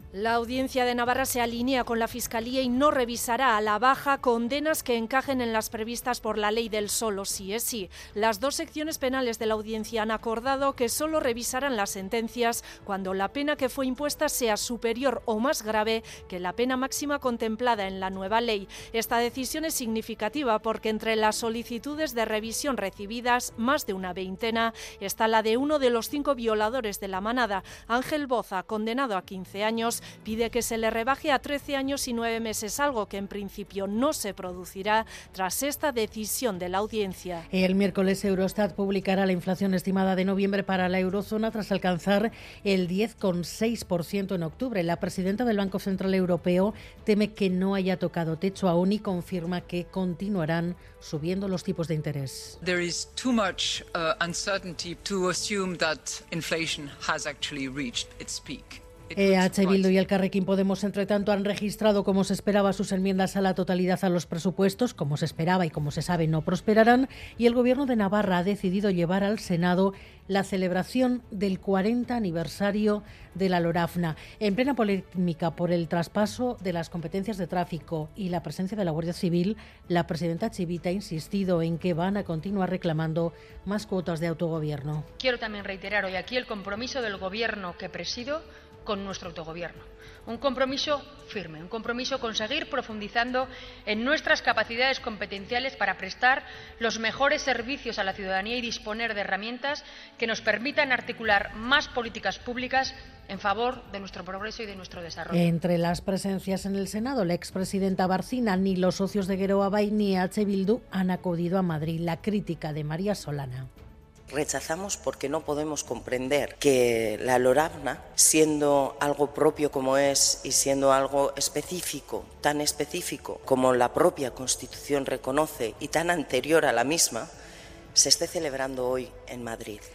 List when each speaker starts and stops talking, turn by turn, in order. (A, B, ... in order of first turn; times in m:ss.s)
0:00.1-0:37.4 A
0:37.5-0:52.6 B
0:52.6-0:59.9 C
0:59.2-1:25.1 B
1:25.2-1:45.4 D
1:45.3-1:53.7 B
1:54.3-2:07.3 E
2:08.0-2:09.9 E